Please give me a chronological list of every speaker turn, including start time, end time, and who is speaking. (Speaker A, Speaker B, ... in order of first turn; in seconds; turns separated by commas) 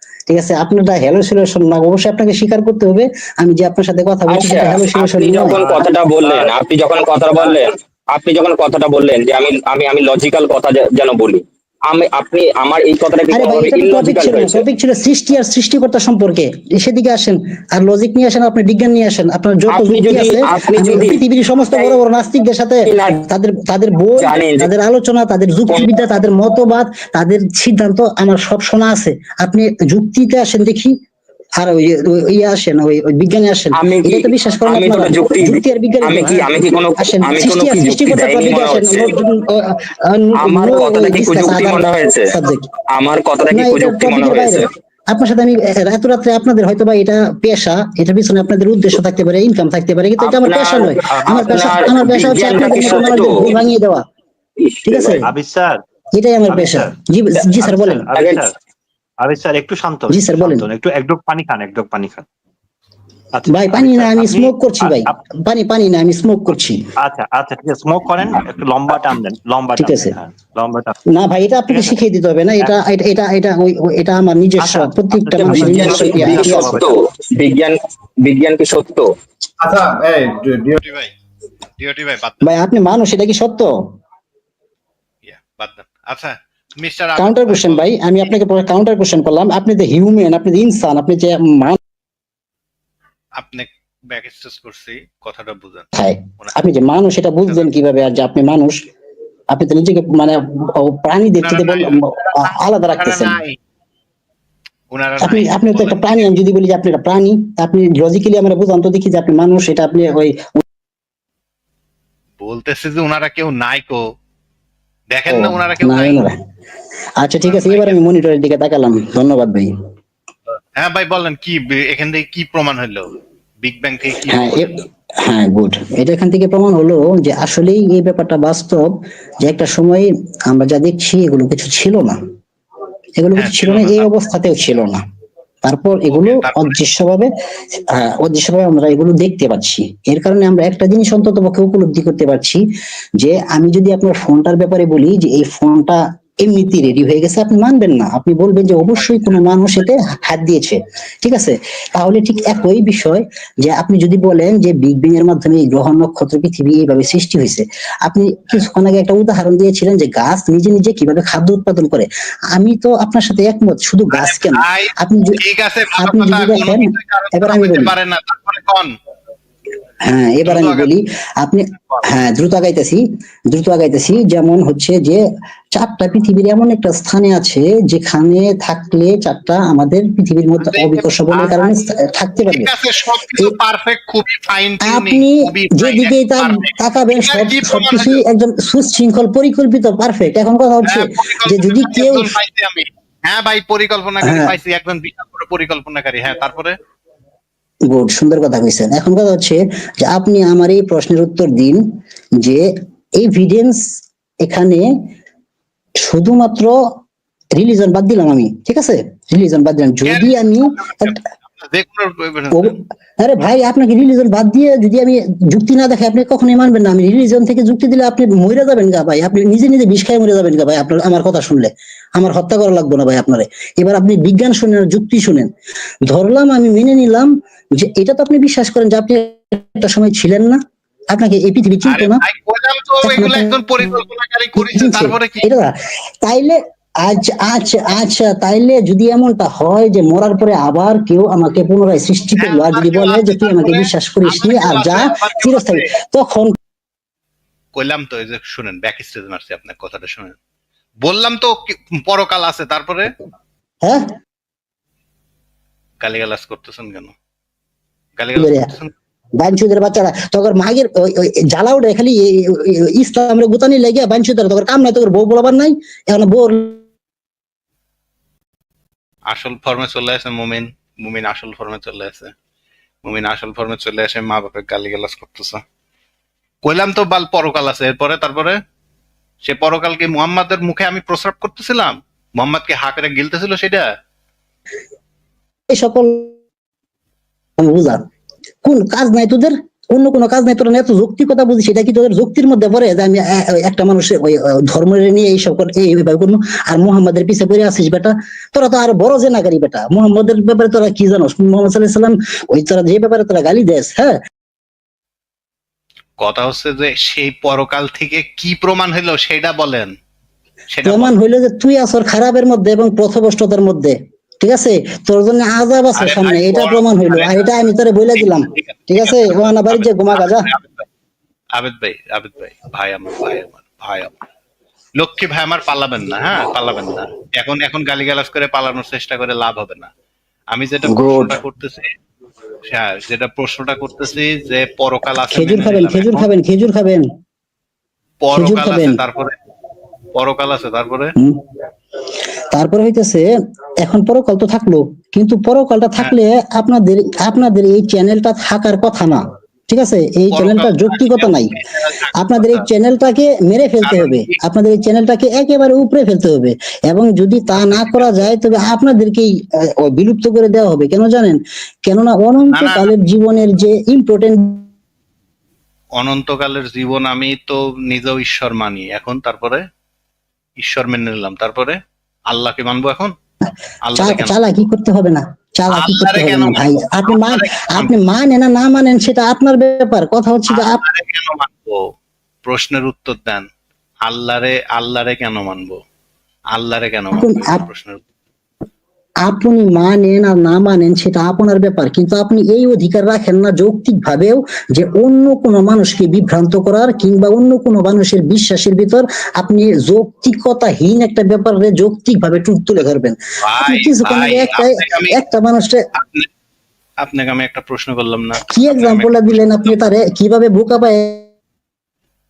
Speaker A: 0.3-5.6, Speaker B: 4.3-14.6, Speaker C: 5.5-6.5, Speaker A: 13.3-30.9, Speaker B: 19.7-21.2, Speaker B: 22.8-23.2, Speaker B: 24.2-24.7, Speaker A: 31.6-42.7, Speaker B: 33.8-39.1, Speaker B: 40.4-42.3, Speaker B: 42.9-44.7, Speaker A: 43.5-54.0, Speaker B: 50.2-53.5, Speaker C: 51.0-51.7, Speaker B: 54.6-55.2, Speaker A: 54.9-55.2, Speaker C: 55.2-55.8, Speaker A: 56.1-58.0, Speaker C: 56.5-57.0, Speaker C: 57.5-58.5, Speaker B: 58.1-58.4, Speaker C: 59.2-62.2, Speaker A: 60.1-60.6, Speaker C: 63.3-65.2, Speaker A: 63.5-66.8, Speaker C: 67.0-70.9, Speaker A: 69.8-70.2, Speaker A: 71.1-76.8, Speaker C: 71.7-72.0, Speaker C: 74.6-76.9, Speaker B: 75.6-79.1, Speaker D: 79.7-81.1, Speaker D: 81.8-82.5, Speaker A: 82.4-83.7, Speaker D: 85.2-87.9, Speaker A: 87.2-91.8, Speaker D: 93.4-95.9, Speaker A: 95.9-98.8, Speaker A: 99.5-103.4, Speaker D: 101.4-103.6, Speaker D: 104.9-106.3, Speaker A: 105.2-110.6, Speaker D: 112.4-114.0, Speaker D: 115.1-116.2, Speaker A: 115.3-116.3, Speaker A: 117.2-119.7, Speaker D: 117.4-118.0, Speaker D: 120.8-123.1, Speaker D: 123.6-124.7, Speaker A: 124.3-132.2, Speaker A: 133.2-135.0, Speaker D: 133.3-134.1, Speaker A: 135.6-142.6, Speaker D: 136.1-136.8, Speaker A: 143.2-165.4, Speaker D: 148.9-149.4, Speaker D: 164.1-168.9, Speaker A: 166.0-167.9, Speaker A: 170.0-175.2, Speaker D: 170.4-170.9, Speaker D: 171.8-172.1, Speaker A: 175.7-182.7, Speaker D: 180.6-181.8, Speaker D: 182.5-188.2, Speaker A: 184.8-192.3, Speaker D: 190.8-196.7, Speaker A: 194.2-194.5, Speaker A: 197.9-201.8, Speaker A: 202.4-202.7, Speaker A: 203.2-203.8, Speaker A: 204.4-204.8, Speaker A: 206.0-206.7, Speaker A: 207.6-211.2, Speaker D: 210.0-212.8, Speaker A: 212.5-225.5, Speaker A: 226.0-230.6, Speaker A: 231.1-232.2, Speaker D: 231.8-235.5, Speaker A: 233.0-233.5, Speaker A: 234.6-246.6, Speaker D: 242.4-245.8, Speaker D: 247.7-250.3, Speaker D: 251.0-253.1, Speaker D: 256.0-257.1, Speaker D: 258.2-258.9, Speaker A: 258.4-258.7, Speaker A: 259.4-266.8, Speaker D: 269.3-272.3, Speaker D: 273.0-275.6, Speaker D: 276.6-278.6, Speaker D: 279.4-283.8, Speaker A: 285.7-286.3, Speaker A: 287.6-288.0, Speaker A: 288.6-304.1, Speaker D: 306.2-309.9, Speaker D: 310.7-311.1, Speaker A: 310.9-320.4, Speaker D: 315.9-317.6, Speaker D: 318.2-320.8, Speaker D: 321.6-324.1, Speaker D: 325.0-329.9, Speaker D: 330.5-331.9, Speaker A: 330.9-331.4, Speaker D: 332.7-336.3, Speaker A: 335.3-337.0, Speaker D: 338.2-339.3, Speaker A: 338.3-339.0, Speaker D: 340.1-341.1, Speaker A: 342.5-343.2, Speaker A: 343.8-351.6, Speaker D: 350.3-352.6, Speaker A: 352.2-364.6, Speaker D: 353.8-354.4, Speaker D: 357.5-358.3, Speaker D: 362.5-362.9, Speaker D: 366.0-369.6, Speaker D: 370.6-371.8, Speaker D: 372.3-373.1, Speaker D: 373.9-374.4, Speaker A: 373.9-380.8, Speaker D: 375.7-377.9, Speaker D: 380.5-381.8, Speaker D: 382.4-383.4, Speaker D: 384.0-385.8, Speaker D: 386.5-388.0, Speaker A: 387.1-387.6, Speaker A: 389.2-405.8, Speaker D: 403.4-405.2, Speaker D: 405.9-406.3, Speaker D: 407.0-409.8, Speaker A: 408.5-411.3